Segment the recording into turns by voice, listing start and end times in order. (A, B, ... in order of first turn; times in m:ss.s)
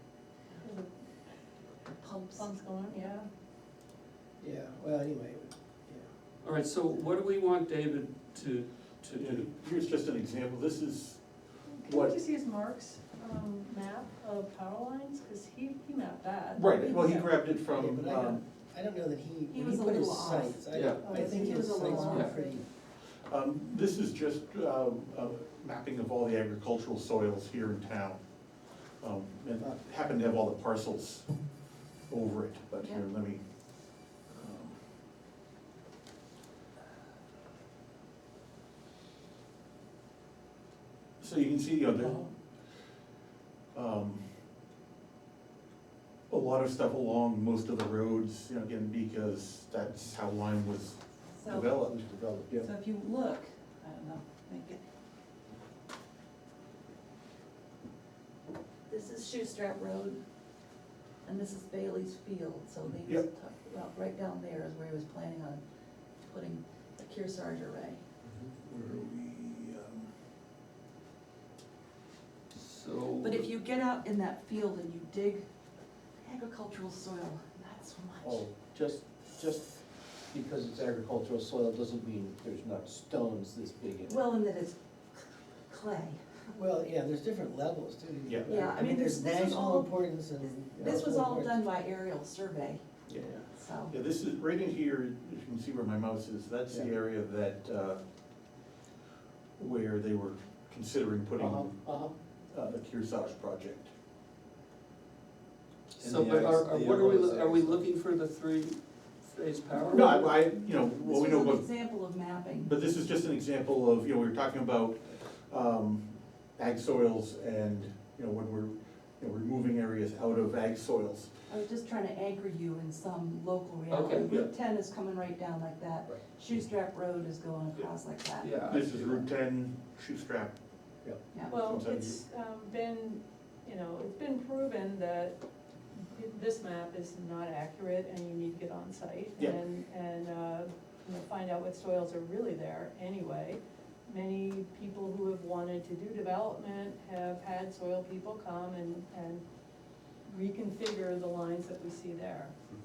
0:00.6-0:00.9 A
0:01.8-0:03.1 B
0:02.4-0:03.3 A
0:04.4-0:06.1 C
0:06.4-0:09.5 D
0:09.2-0:12.2 E
0:11.7-0:17.3 A
0:16.5-0:18.4 E
0:17.7-0:22.6 C
0:19.5-0:22.3 B
0:20.7-0:21.0 D
0:21.8-0:22.4 A
0:23.3-0:28.2 E
0:29.0-0:31.3 E
0:32.1-0:33.4 E
0:34.3-0:34.8 E
0:41.2-0:42.3 E
0:43.7-0:44.2 E
0:46.3-0:52.0 E
0:51.4-0:51.7 B
0:51.8-0:52.7 F
0:52.6-0:54.8 B
0:58.9-1:00.2 B
1:01.2-1:05.6 B
1:06.2-1:08.0 B
1:08.6-1:10.1 E
1:12.5-1:13.5 D
1:13.2-1:15.5 B
1:16.2-1:18.4 B
1:18.2-1:24.2 F
1:24.1-1:26.4 B
1:26.5-1:31.6 C
1:28.5-1:32.9 B
1:33.1-1:38.0 E
1:33.6-1:33.9 B
1:39.6-1:41.8 E
1:41.4-1:42.2 F
1:42.5-1:43.9 E
1:46.0-1:50.4 D
1:46.0-1:47.8 F
1:49.8-1:51.7 E
1:51.0-1:52.7 B
1:52.6-2:01.3 E
2:01.5-2:08.6 B
2:03.9-2:04.5 D
2:08.4-2:09.2 D
2:08.7-2:10.6 E
2:11.3-2:11.6 B
2:11.5-2:15.4 A
2:11.5-2:12.2 E
2:15.9-2:29.4 A
2:30.2-2:32.6 A